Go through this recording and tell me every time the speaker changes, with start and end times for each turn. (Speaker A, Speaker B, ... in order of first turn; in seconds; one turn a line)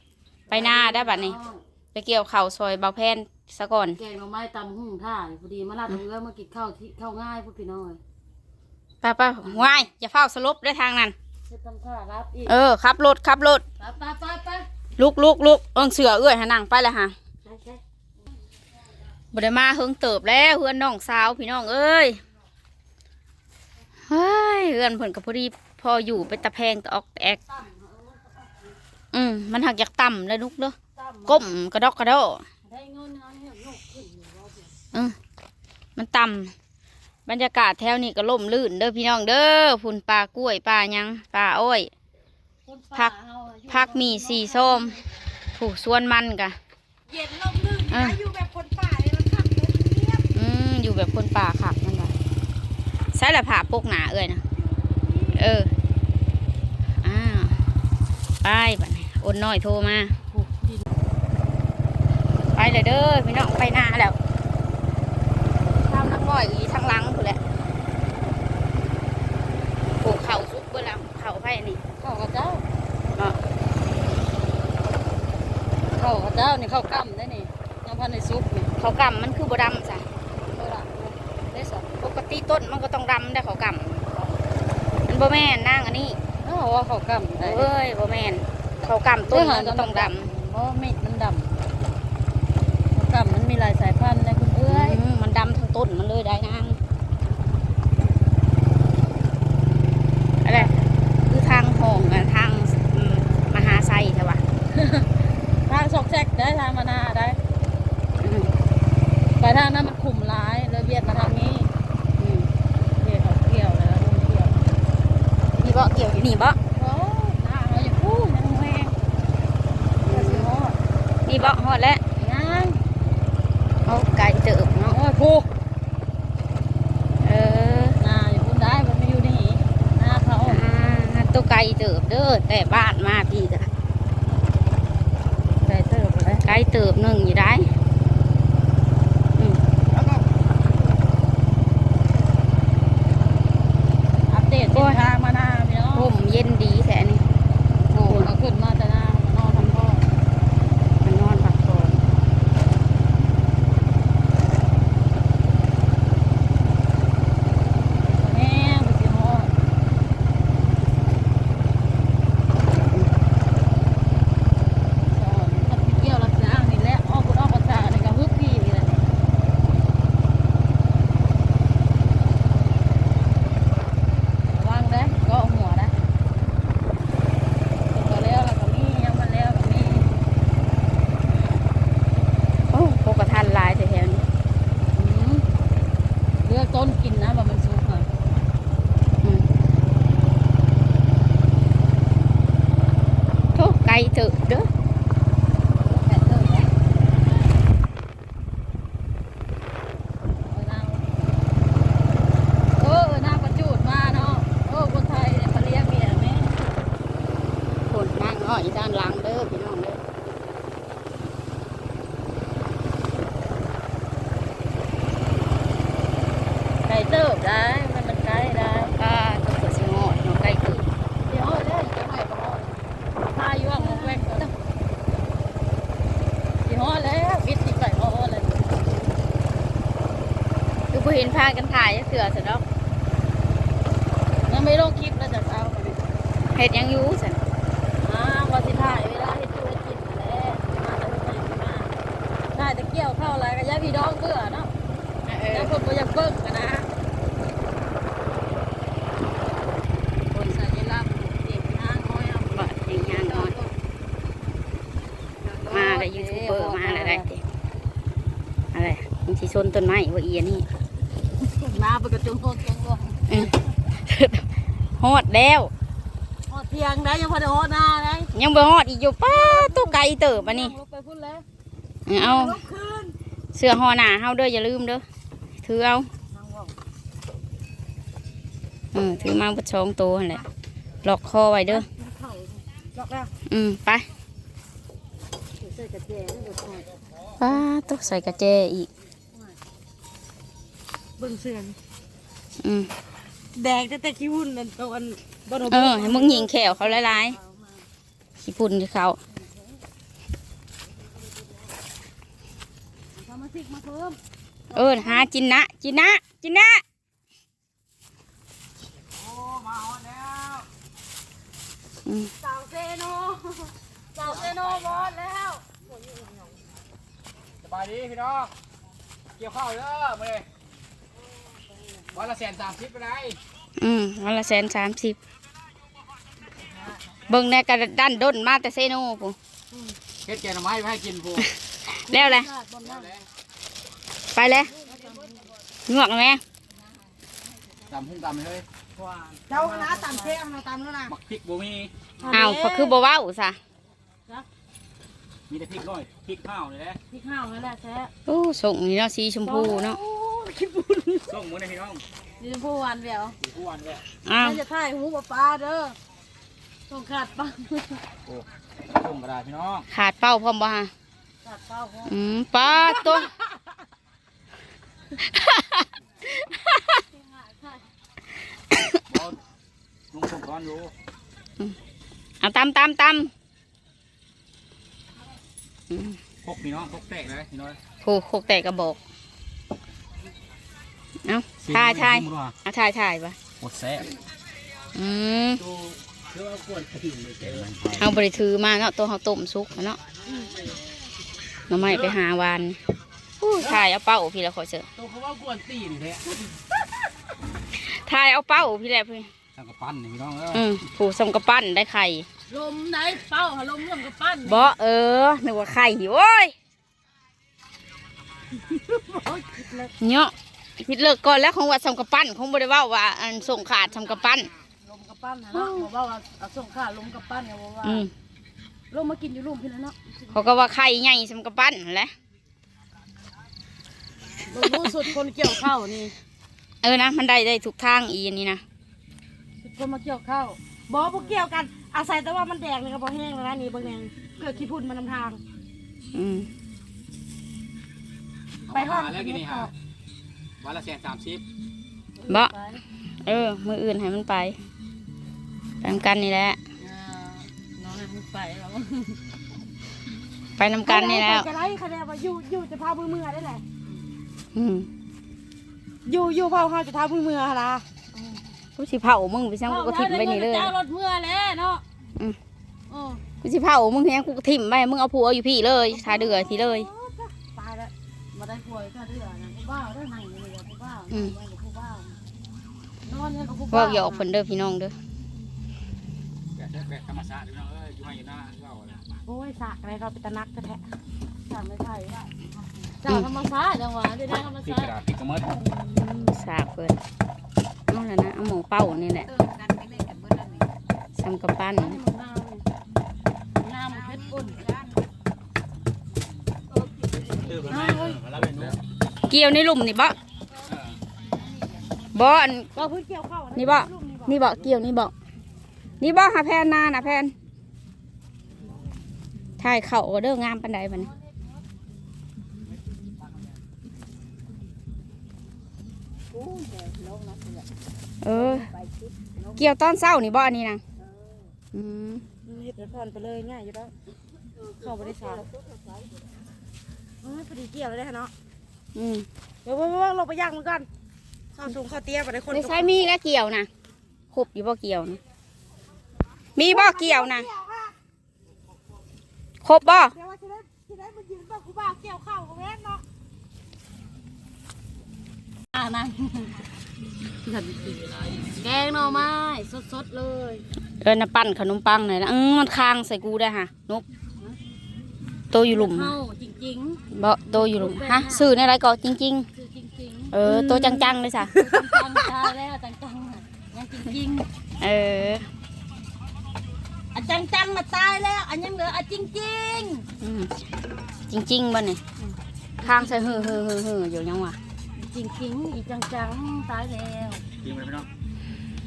Speaker A: 0.5-1.6
Speaker B: 0.5-1.4
Speaker B: 1.9-4.0
Speaker A: 4.0-8.0
Speaker B: 9.0-11.2
Speaker A: 9.5-9.8
Speaker A: 11.5-12.6
Speaker B: 12.5-13.6
Speaker A: 13.8-14.7
Speaker B: 15.0-17.1
Speaker A: 17.4-17.8
Speaker B: 19.3-22.2
Speaker B: 24.1-27.4
Speaker A: 27.5-28.7
Speaker B: 29.1-30.8
Speaker A: 31.0-31.5
Speaker B: 31.3-32.4
Speaker A: 32.6-34.8
Speaker B: 36.0-36.5
Speaker B: 37.3-41.9
Speaker A: 42.7-45.0
Speaker B: 43.7-45.0
Speaker B: 45.6-46.6
Speaker C: 47.1-50.3
Speaker B: 47.9-48.2
Speaker B: 50.3-52.1
Speaker B: 53.1-54.4
Speaker C: 54.6-55.4
Speaker B: 55.4-55.7
Speaker B: 57.0-57.6
Speaker B: 58.4-60.1
Speaker A: 60.3-60.9
Speaker B: 62.5-64.2
Speaker B: 65.8-67.4
Speaker B: 70.0-71.8
Speaker A: 72.0-72.6
Speaker A: 76.0-78.7
Speaker B: 78.8-80.0
Speaker A: 80.5-81.9
Speaker B: 82.0-84.0
Speaker B: 85.1-86.2
Speaker A: 86.4-87.7
Speaker B: 87.4-90.3
Speaker A: 89.3-91.6
Speaker A: 92.9-95.0
Speaker B: 94.7-96.8
Speaker B: 100.4-100.7
Speaker B: 101.3-104.4
Speaker A: 104.8-105.1
Speaker A: 105.7-107.4
Speaker B: 108.2-108.5
Speaker A: 109.4-111.7
Speaker B: 112.2-112.5
Speaker A: 113.0-114.5
Speaker B: 115.6-116.6
Speaker A: 116.7-118.9
Speaker B: 120.0-120.5
Speaker A: 120.0-120.8
Speaker B: 121.3-122.0
Speaker A: 122.2-122.8
Speaker B: 123.9-125.0
Speaker A: 124.9-125.5
Speaker B: 127.2-128.0
Speaker A: 128.0-130.6
Speaker B: 130.4-133.7
Speaker A: 135.6-136.4
Speaker B: 136.4-137.7
Speaker B: 139.4-139.6
Speaker C: 139.9-140.2
Speaker A: 144.3-146.1
Speaker B: 144.7-145.0
Speaker B: 145.9-147.2
Speaker B: 147.9-148.3
Speaker A: 147.9-150.0
Speaker B: 151.0-152.0
Speaker A: 158.1-159.5
Speaker A: 165.1-169.0
Speaker A: 174.5-175.9
Speaker A: 177.9-180.1
Speaker B: 182.7-184.3
Speaker A: 184.9-185.5
Speaker A: 186.4-188.1
Speaker B: 193.6-194.7
Speaker A: 195.8-196.7
Speaker A: 200.5-201.3
Speaker A: 202.8-206.7
Speaker B: 207.9-210.0
Speaker A: 216.9-218.9
Speaker B: 219.0-220.9
Speaker A: 221.3-224.5
Speaker B: 223.9-224.2
Speaker A: 226.6-228.7
Speaker B: 230.9-232.6
Speaker A: 234.5-236.0
Speaker B: 236.5-237.4
Speaker A: 238.0-241.9
Speaker A: 242.5-244.7
Speaker B: 245.3-245.7
Speaker A: 245.5-246.9
Speaker B: 250.3-250.6
Speaker A: 250.4-253.7
Speaker B: 252.5-253.6
Speaker A: 255.4-257.3
Speaker B: 255.7-257.4
Speaker B: 258.7-260.7
Speaker A: 261.4-263.6
Speaker B: 263.3-264.5
Speaker B: 265.0-265.7
Speaker A: 266.5-268.3
Speaker B: 268.3-270.7
Speaker A: 269.3-271.4
Speaker B: 272.1-272.6
Speaker C: 272.2-273.1
Speaker B: 273.5-275.0
Speaker B: 275.6-276.1
Speaker A: 276.3-276.8
Speaker B: 278.9-280.4
Speaker B: 281.0-281.9
Speaker A: 281.7-282.6
Speaker C: 282.9-283.3
Speaker B: 283.5-284.1
Speaker A: 285.6-286.9
Speaker B: 287.4-288.9
Speaker C: 291.2-291.8
Speaker B: 292.6-292.9
Speaker C: 293.5-296.3
Speaker B: 295.7-297.4
Speaker A: 296.0-297.9
Speaker B: 298.4-299.2
Speaker A: 299.3-299.8
Speaker A: 303.1-304.2
Speaker A: 304.7-305.3
Speaker B: 304.7-306.8
Speaker D: 309.1-310.7
Speaker B: 312.1-312.3
Speaker A: 312.4-315.6
Speaker D: 314.3-314.8
Speaker C: 316.1-316.5
Speaker D: 317.6-318.5
Speaker D: 319.4-320.5
Speaker A: 321.8-322.2
Speaker D: 322.1-323.4
Speaker B: 323.8-325.2
Speaker B: 327.3-329.4
Speaker A: 329.7-330.0
Speaker D: 330.2-331.5
Speaker B: 331.4-332.5
Speaker A: 332.1-333.1
Speaker D: 332.9-333.2
Speaker B: 334.3-334.7
Speaker A: 334.7-335.5
Speaker B: 335.9-336.4
Speaker D: 337.9-338.7
Speaker A: 339.0-340.4
Speaker C: 339.5-341.1
Speaker D: 341.1-341.9
Speaker A: 342.2-343.0
Speaker B: 342.3-343.6
Speaker D: 345.5-347.0
Speaker A: 347.1-348.1
Speaker B: 348.3-350.0
Speaker A: 349.5-351.3
Speaker D: 351.3-352.0
Speaker A: 352.4-353.4
Speaker D: 353.4-354.0
Speaker B: 354.2-354.6
Speaker A: 354.4-356.0
Speaker A: 356.9-358.0
Speaker D: 358.3-359.9
Speaker B: 359.9-360.9
Speaker A: 361.4-363.2
Speaker B: 362.1-363.3
Speaker B: 365.2-367.0
Speaker A: 367.1-367.9
Speaker B: 368.7-369.0
Speaker D: 369.1-369.4
Speaker D: 370.1-370.9
Speaker B: 372.4-373.3
Speaker B: 375.9-376.2
Speaker D: 376.4-377.8
Speaker B: 378.0-379.0
Speaker B: 381.2-383.4
Speaker D: 381.6-382.6
Speaker D: 383.6-384.1
Speaker B: 384.9-385.6
Speaker D: 385.7-388.1
Speaker B: 388.0-390.0
Speaker B: 391.7-392.8
Speaker D: 391.9-392.2
Speaker B: 393.4-394.9
Speaker D: 395.0-396.3
Speaker B: 397.8-399.3
Speaker D: 399.6-400.6
Speaker B: 400.5-402.3
Speaker A: 402.5-404.7
Speaker B: 404.5-406.6
Speaker A: 408.9-409.9
Speaker B: 410.0-414.5
Speaker A: 414.8-418.1
Speaker B: 415.5-415.9
Speaker B: 417.8-418.1
Speaker A: 418.9-420.4
Speaker B: 420.3-422.1
Speaker A: 424.5-426.2
Speaker B: 424.6-424.9
Speaker B: 426.8-428.6
Speaker A: 429.6-430.6
Speaker C: 430.9-435.4
Speaker B: 436.1-436.5
Speaker D: 438.7-439.7
Speaker C: 438.7-439.7
Speaker D: 440.6-441.4
Speaker A: 442.2-442.8
Speaker B: 443.2-444.6
Speaker B: 445.8-446.6
Speaker A: 446.8-449.2
Speaker B: 450.6-451.5
Speaker C: 450.9-453.6
Speaker B: 454.6-454.9
Speaker C: 456.1-457.9
Speaker B: 458.8-460.7
Speaker A: 459.7-461.8
Speaker A: 462.9-463.2
Speaker B: 463.4-466.9
Speaker A: 465.9-472.2
Speaker C: 466.3-466.7
Speaker A: 473.0-474.3
Speaker B: 473.7-474.9
Speaker D: 476.6-479.2
Speaker A: 479.3-479.7
Speaker C: 479.6-480.8
Speaker A: 481.5-484.9
Speaker D: 484.6-485.5
Speaker B: 485.6-487.0
Speaker B: 487.9-489.3
Speaker A: 489.3-490.7
Speaker B: 491.2-492.0
Speaker A: 491.8-492.7
Speaker A: 493.6-494.7
Speaker D: 497.4-498.8
Speaker A: 497.5-498.2
Speaker B: 499.3-500.2
Speaker D: 500.7-501.0
Speaker B: 502.1-502.7
Speaker A: 502.8-504.3
Speaker B: 503.6-505.1
Speaker C: 503.6-504.3
Speaker B: 506.0-507.3
Speaker B: 509.6-511.1
Speaker A: 516.3-517.6
Speaker B: 518.2-518.7
Speaker A: 518.4-518.9
Speaker B: 519.6-520.8
Speaker B: 521.7-522.2
Speaker C: 522.5-523.9
Speaker C: 524.8-525.5
Speaker C: 527.2-528.3
Speaker B: 529.0-529.3
Speaker C: 529.6-530.9
Speaker C: 531.6-532.9
Speaker B: 532.5-533.7
Speaker B: 534.3-535.2
Speaker B: 536.5-537.5
Speaker C: 536.6-538.0
Speaker B: 539.6-540.1
Speaker C: 540.1-543.0
Speaker A: 545.7-546.7
Speaker A: 547.4-550.7
Speaker B: 551.0-554.0
Speaker B: 555.5-556.1
Speaker A: 555.7-558.6
Speaker B: 557.1-559.5
Speaker A: 559.6-564.5
Speaker B: 560.3-561.6
Speaker B: 564.8-565.5
Speaker A: 567.1-570.0
Speaker B: 570.2-570.5
Speaker B: 571.3-572.0
Speaker A: 572.2-573.6
Speaker B: 572.8-574.6
Speaker A: 575.0-577.4
Speaker D: 577.6-578.1